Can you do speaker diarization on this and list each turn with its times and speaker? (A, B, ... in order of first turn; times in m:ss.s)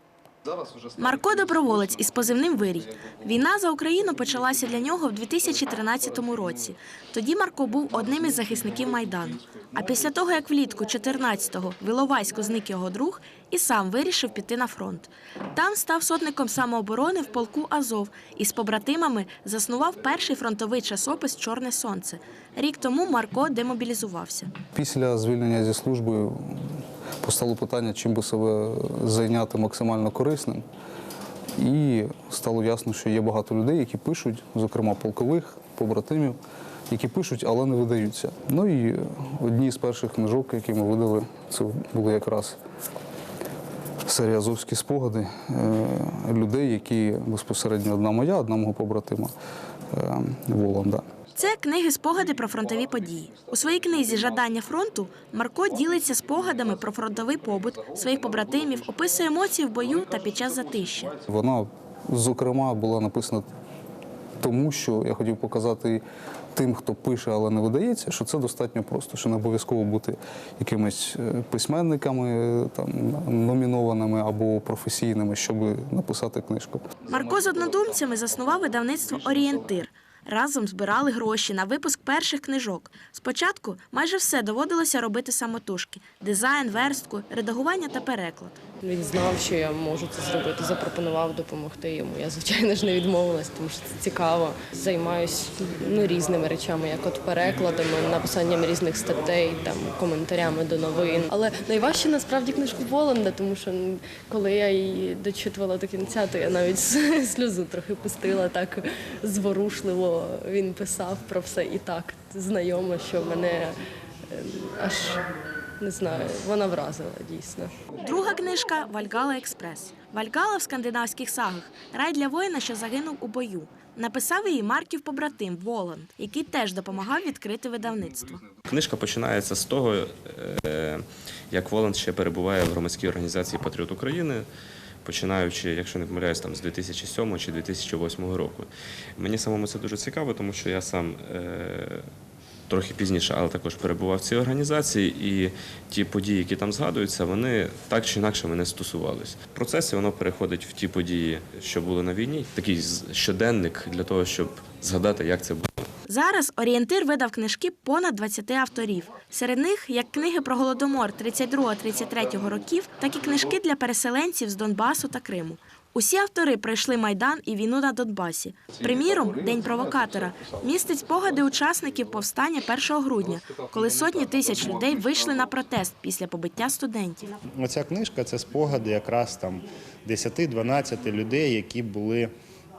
0:01.0-0:24.5 A
0:24.7-0:30.6 B
0:31.6-0:36.4 B
0:36.9-0:42.6 B
0:44.0-0:49.3 B
0:49.9-0:51.0 B
0:51.4-1:01.1 A
1:01.2-1:03.5 B
1:04.4-1:16.9 B
1:17.1-1:28.6 A
1:28.8-1:53.7 C
1:54.3-1:55.2 C
1:55.8-1:57.8 C
1:58.0-2:08.4 A
2:08.7-2:14.5 D
2:15.0-2:22.1 D
2:22.7-2:35.9 D
2:36.1-2:57.3 A
2:57.6-3:02.3 E